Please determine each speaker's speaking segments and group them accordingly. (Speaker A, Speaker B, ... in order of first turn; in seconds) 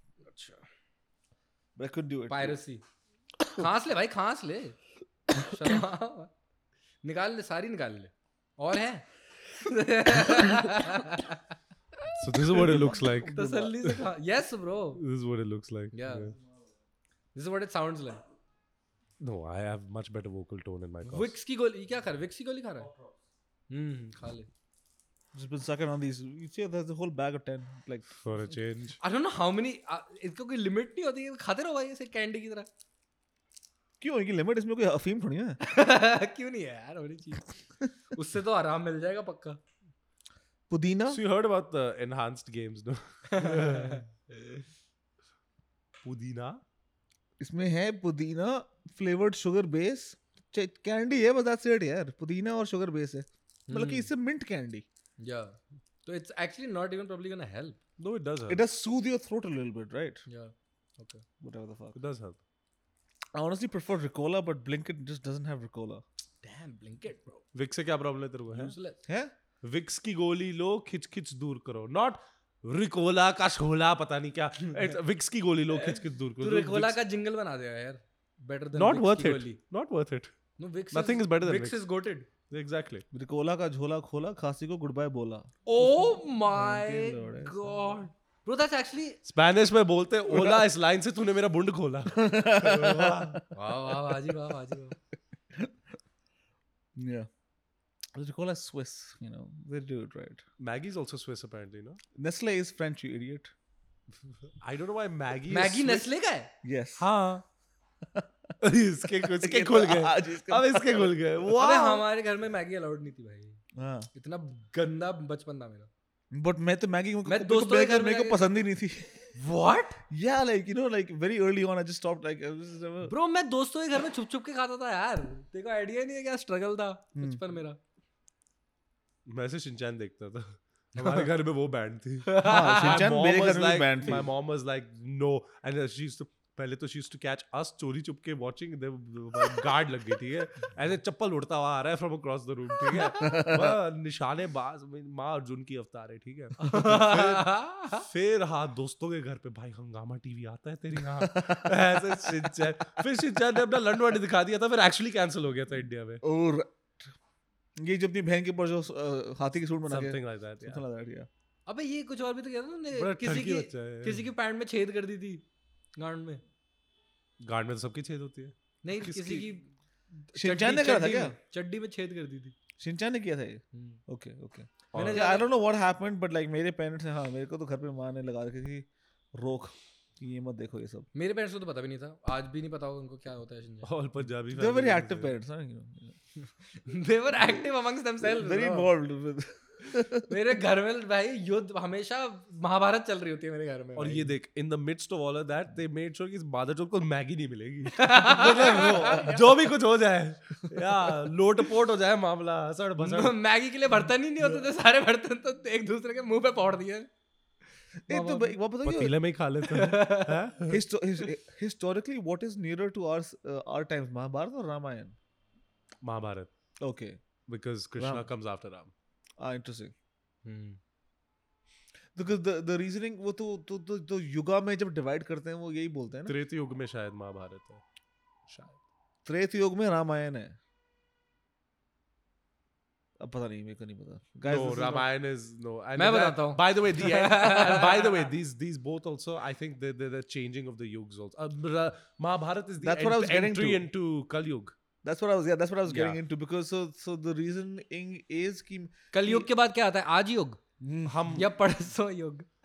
Speaker A: 0.2-0.6, 2.3-2.8, 3.5-4.8, 5.3-6.3, 7.0-9.1, 9.6-11.4, 13.3-15.0, 15.9-16.4, 17.3-18.2, 21.0-22.9, 23.7-24.5, 29.0-32.7, 35.6-37.6, 38.1-39.6, 43.3-44.6, 53.7-54.1, 55.2-57.8, 60.3-61.2, 66.4-67.5, 68.5-69.0, 75.7-79.6, 80.6-82.3, 85.7-89.2, 93.5-95.0, 105.5-106.5, 111.6-113.6, 114.1-115.9, 117.3-118.5, 119.4-120.0, 123.0-127.8, 131.0-131.3, 132.3-133.1, 142.9-143.4, 146.6-148.1, 161.7-165.4, 166.0-166.4, 168.8-172.6, 173.7-174.0, 174.9-175.5, 181.2-183.9, 186.8-188.9, 190.3-194.3, 198.0-199.4, 203.0-207.1, 208.1-208.5, 209.7-210.4, 220.4-220.8, 236.0-238.2, 249.1-250.6, 251.3-252.5
Speaker B: 1.8-2.6, 12.5-13.7, 25.3-28.2, 34.0-35.6, 40.7-41.2, 47.4-54.9, 58.5-60.2, 61.4-62.0, 63.4-66.0, 69.1-69.3, 83.1-88.0, 90.3-90.6, 92.1-93.5, 97.0-97.3, 98.1-100.4, 102.2-103.5, 106.6-107.1, 108.1-108.5, 109.0-112.0, 113.8-114.1, 116.3-119.3, 120.1-123.1, 127.2-127.4, 132.4-134.3, 143.0-143.8, 151.1-152.4, 156.2-157.1, 157.8-161.3, 170.3-171.4, 172.8-181.1, 184.5-186.2, 188.2-190.3, 198.5-199.4, 208.1-209.1, 210.7-215.2, 216.8-217.2, 218.0-218.3, 219.4-219.9, 222.2-226.4, 229.2-230.6, 233.2-235.1, 242.8-243.9, 245.0-249.5, 250.8-251.3
Speaker C: 12.1-14.0, 15.0-16.4, 19.2-21.4, 28.1-29.0, 41.1-44.1, 46.0-46.6, 58.0-58.6, 62.0-62.4, 67.5-68.8, 69.6-77.0, 78.8-80.3, 80.9-81.8, 82.5-83.0, 89.3-93.5, 100.6-102.0, 104.6-106.1, 107.0-107.4, 108.6-111.8, 129.3-156.2, 159.9-160.8, 162.9-164.3, 167.4-169.5, 174.9-175.3, 183.8-185.3, 194.0-203.4, 208.8-210.8, 216.0-216.5, 217.5-218.9, 226.3-227.8, 228.5-228.8, 234.5-244.8, 245.9-246.2, 251.1-251.5